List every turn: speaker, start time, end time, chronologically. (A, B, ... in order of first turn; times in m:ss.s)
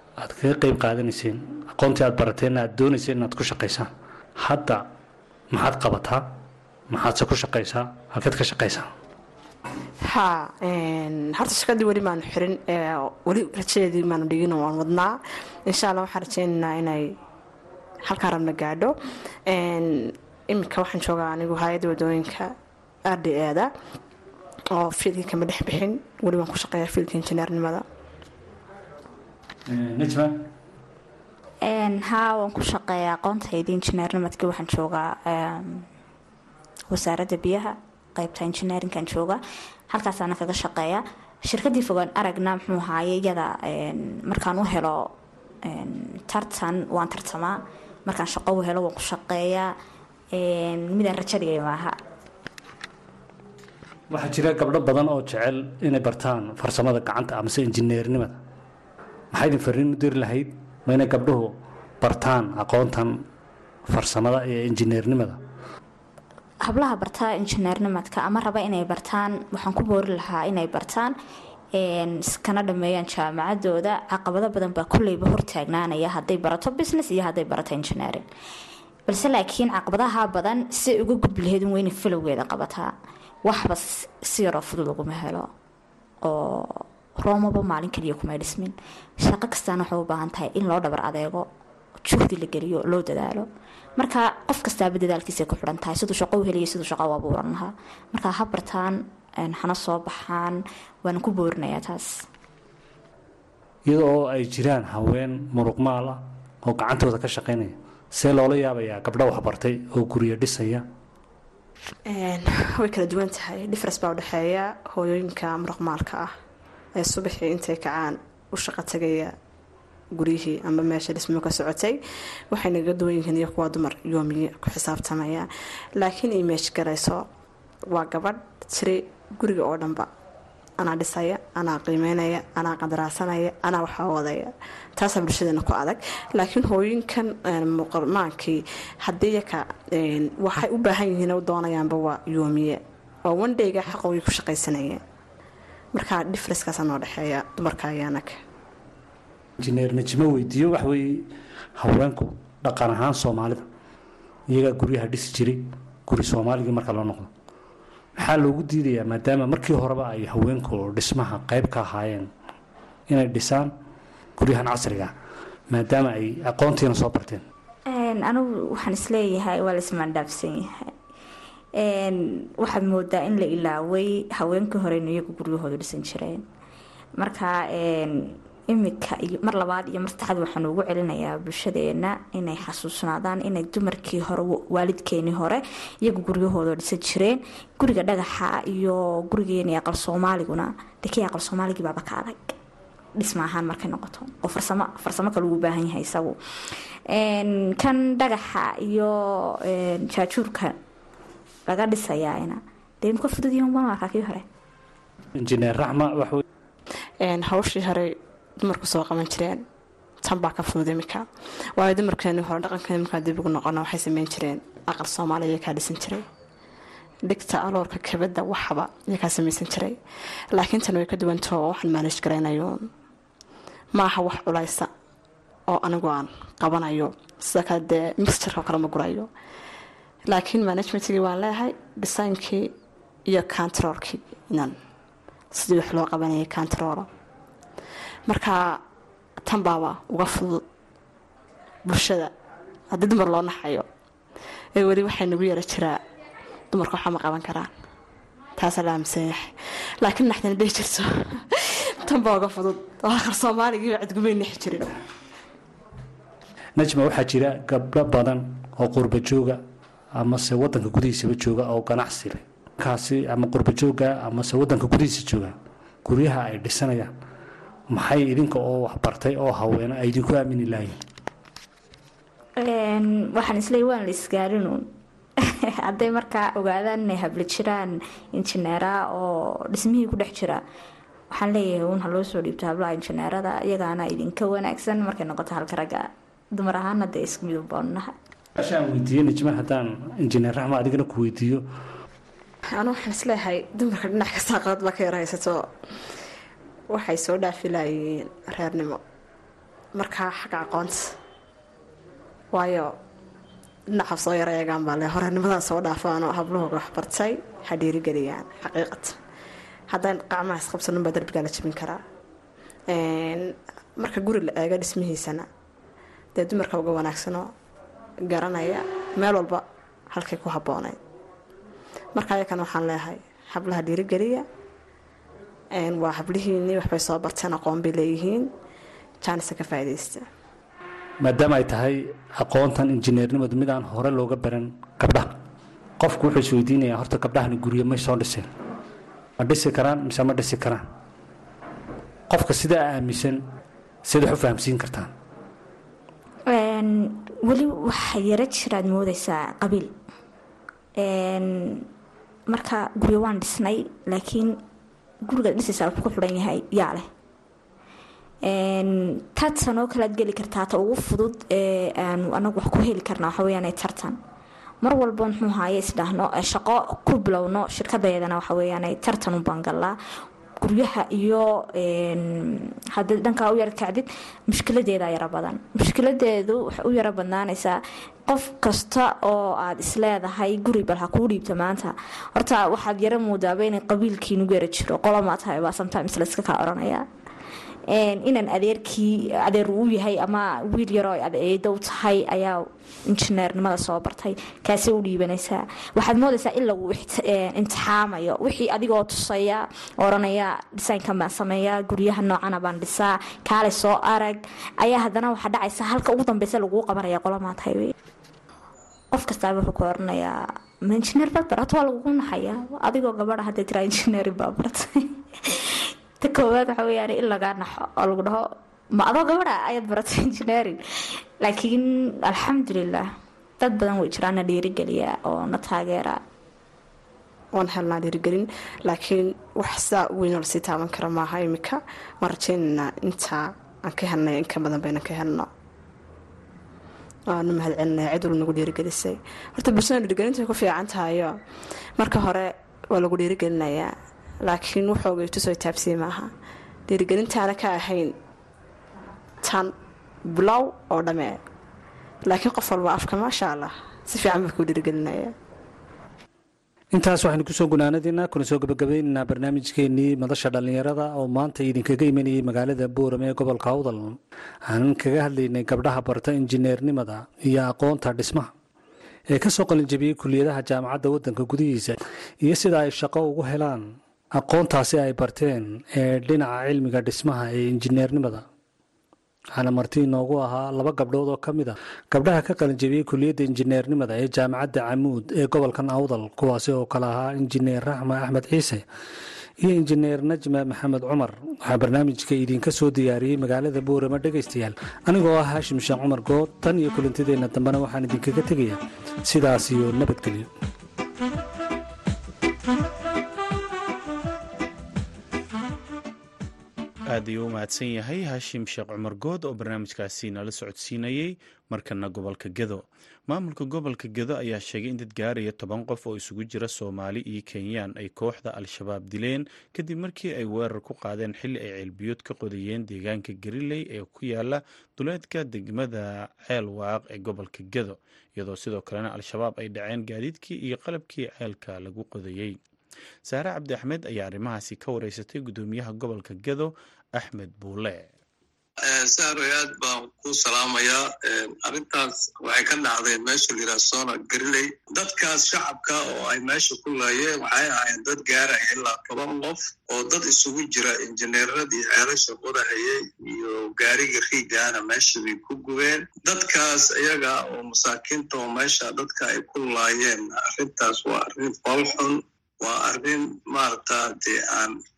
0:00.2-0:04.8 A
0:05.5-0:06.2 A
0:06.9-0:08.9 A
0:10.0-0:17.2 B
0:18.0-0:22.5 B
0:23.1-0:23.7 B
0:24.7-0:27.8 B
0:29.7-0:30.4 A
0:31.6-0:35.9 C
0:36.9-0:45.1 C
0:45.6-0:49.7 C
0:50.3-0:52.0 C
0:54.1-0:58.4 A
0:59.3-1:03.2 A
1:03.9-1:05.4 A
1:06.6-1:11.2 C
1:11.7-1:18.2 C
1:19.1-1:22.9 C
1:23.4-1:25.5 C
1:26.2-1:31.5 C
1:32.0-1:42.1 C
1:43.9-1:50.8 A
1:52.1-1:56.3 B
1:57.0-1:59.3 B
2:00.1-2:02.0 B
2:02.5-2:07.2 B
2:07.9-2:10.1 B
2:10.8-2:25.0 B
2:25.9-2:28.4 B
2:29.6-2:33.6 A
2:34.5-2:37.3 A
2:38.2-2:42.3 A
2:43.1-2:43.7 A
2:44.4-2:45.1 A
2:45.7-2:47.4 A
2:47.9-2:50.9 C
2:51.8-2:56.4 C
2:57.2-3:12.5 C
3:13.2-3:16.4 C
3:17.1-3:20.8 C
3:21.7-3:24.4 C
3:25.4-3:26.4 A
3:27.2-3:29.6 B
3:30.2-3:36.2 B
3:37.2-3:40.0 B
3:40.5-3:42.9 B
3:43.9-3:44.9 B
3:45.7-3:49.3 B
3:50.3-3:52.7 B
3:53.3-3:54.7 B
3:55.5-3:57.1 B
3:58.3-3:58.8 B
3:59.4-4:00.6 B
4:01.8-4:02.3 B
4:02.9-4:03.8 B
4:04.8-4:06.0 B
4:06.7-4:07.7 B
4:08.6-4:09.5 B
4:10.0-4:15.0 B
4:16.8-4:19.6 A
4:20.1-4:27.1 A
4:27.9-4:31.0 A
4:32.6-4:34.9 C
4:35.4-4:40.6 C
4:41.3-4:48.1 C
4:48.6-4:51.6 A
4:52.7-4:55.7 B
4:56.9-4:59.0 B
4:59.9-5:01.1 B
5:02.5-5:02.9 B
5:03.9-5:09.2 B
5:09.9-5:12.0 B
5:12.9-5:15.5 B
5:16.4-5:17.5 B
5:18.3-5:21.0 B
5:22.1-5:24.4 B
5:25.7-5:28.5 B
5:29.2-5:30.3 B
5:31.2-5:35.4 A
5:36.0-5:38.5 A
5:39.4-5:40.8 A
5:42.3-5:43.4 A
5:44.0-5:45.1 A
5:46.5-5:49.9 C
5:51.0-5:51.9 C
5:52.5-5:54.6 C
5:55.2-5:57.1 C
5:58.4-6:04.2 C
6:04.8-6:10.0 C
6:10.6-6:27.0 C
6:27.9-6:47.9 C
6:49.1-7:03.0 C
7:03.6-7:06.2 C
7:07.5-7:15.5 B
7:17.3-7:21.4 B
7:22.0-7:26.3 B
7:26.9-7:28.1 B
7:29.4-7:29.7 B
7:30.3-7:31.4 B
7:32.2-7:35.3 B
7:36.9-7:48.5 A
7:49.3-7:58.4 A
7:59.5-8:08.8 A
8:09.6-8:20.5 A
8:27.1-8:52.6 D
8:53.2-8:58.1 D
8:58.8-9:24.7 E